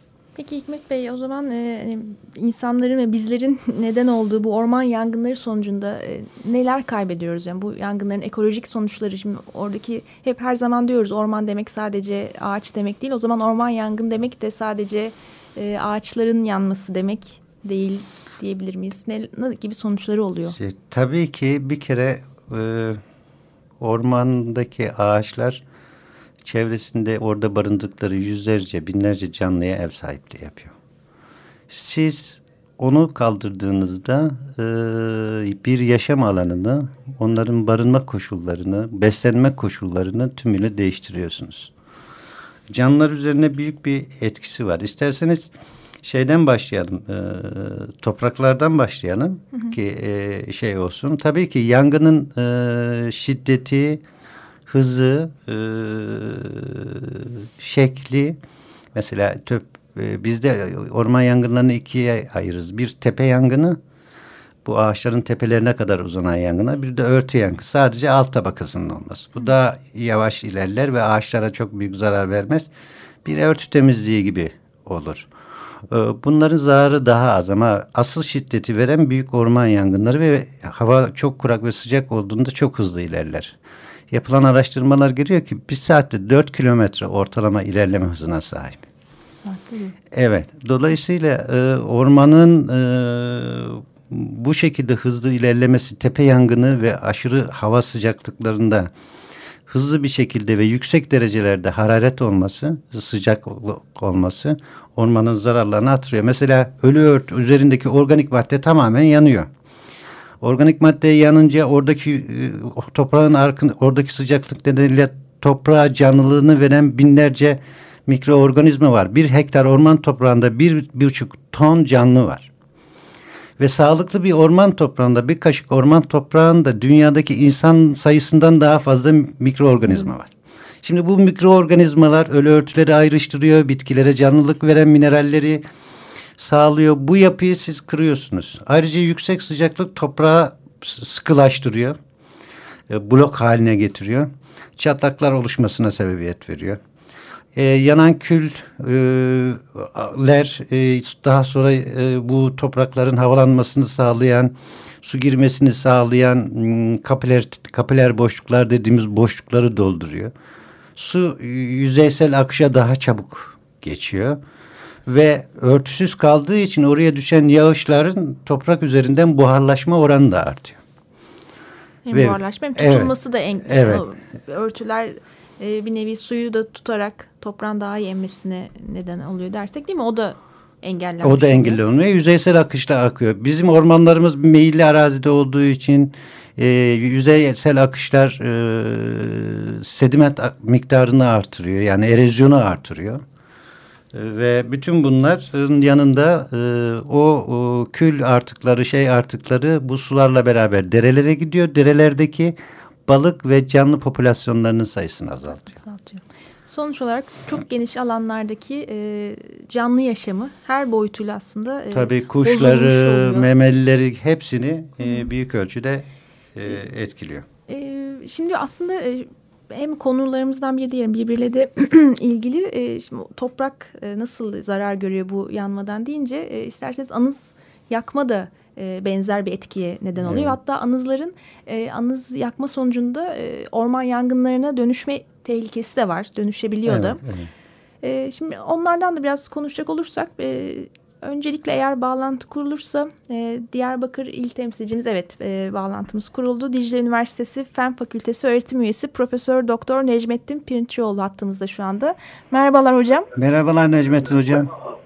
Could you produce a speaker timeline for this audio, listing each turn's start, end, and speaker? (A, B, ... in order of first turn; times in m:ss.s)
0:00.4-0:20.6 A
0:20.5-0:23.0 B
0:23.8-0:25.6 B
0:26.4-0:30.7 B
0:31.7-0:41.7 B
0:42.7-0:45.5 B
0:46.0-0:54.0 B
0:54.7-0:58.4 B
0:59.0-1:03.8 B
1:04.6-1:12.7 B
1:13.2-1:15.3 B
1:15.9-1:23.6 B
1:24.1-1:28.8 B
1:29.4-1:30.0 A
1:30.1-1:38.9 B
1:39.7-1:49.5 B
1:50.4-2:02.5 B
2:03.6-2:10.3 B
2:10.8-2:15.6 B
2:16.4-2:22.0 B
2:22.9-2:26.8 B
2:27.6-2:40.3 B
2:41.0-2:44.4 B
2:45.1-2:50.8 B
2:52.1-3:01.8 A
2:52.1-2:54.0 B
3:01.2-3:13.2 B
3:14.1-3:25.8 B
3:25.7-3:33.5 A
3:31.9-3:37.5 B
3:37.7-3:57.2 A
3:50.2-3:50.6 B
3:56.8-3:57.5 B
3:58.0-4:13.3 A
4:13.3-4:14.7 B